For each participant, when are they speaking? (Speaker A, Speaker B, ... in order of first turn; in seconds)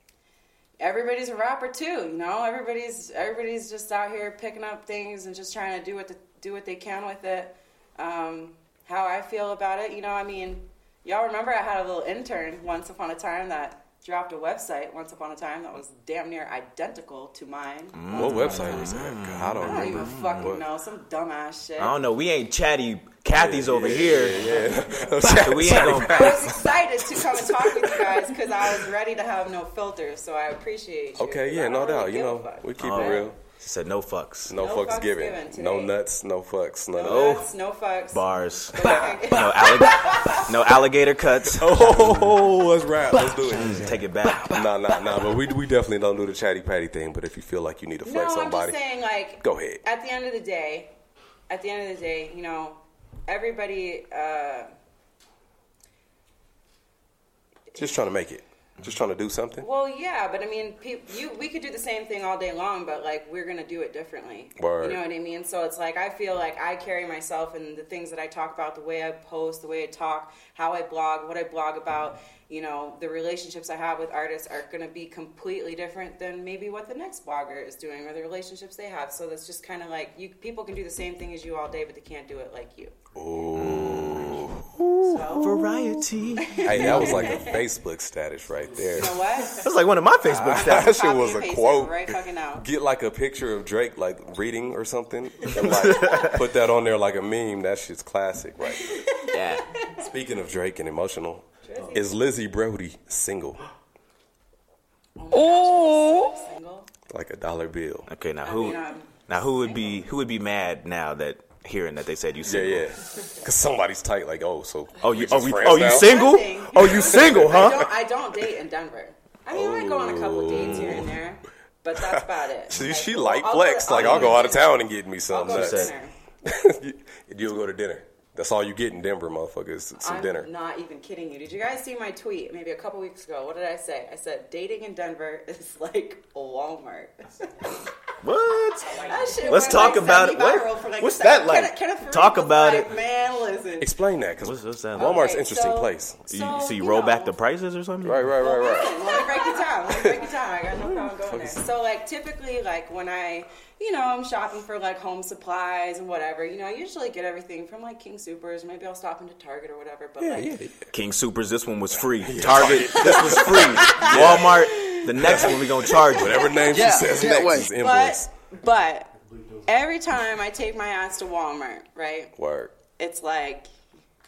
Speaker A: 0.8-19.1, 19.6-22.0, 25.9-33.3, 34.6-35.9, 36.9-40.5, 48.0-50.9, 51.5-54.7, 59.6-82.9, 85.0-85.8, 86.4-87.6, 88.9-89.7, 90.5-92.7, 98.8-99.3, 101.6-102.1, 105.2-106.9, 108.4-109.1, 115.8-126.1, 130.0-137.8, 138.9-143.9, 145.0-147.3, 148.4-160.6, 162.9-164.1, 164.7-169.1, 169.6-172.3, 173.0-173.7
Speaker B: 17.9-20.6, 21.8-26.6, 32.8-34.6, 37.0-37.5, 38.1-42.5, 43.5-44.6, 83.5-87.5, 89.5-91.0, 95.6-96.4, 99.2-99.7, 108.1-112.9, 115.0-117.9, 123.9-124.4, 125.5-125.9, 138.2-143.0, 144.4-145.3, 146.3-148.4, 160.9-166.9
Speaker C: 18.1-20.6, 23.3-26.7, 27.6-28.3, 31.2-33.4, 34.5-37.4, 41.5-48.8, 49.4-49.8, 57.7-59.6, 64.6-65.0, 83.1-84.9, 86.6-89.3, 90.2-99.0, 99.9-103.7, 107.1-108.1, 112.4-117.8, 119.5-121.1, 122.1-130.5, 143.8-146.2, 148.0-150.3, 150.9-151.6, 160.2-160.9, 162.2-168.3, 172.4-172.7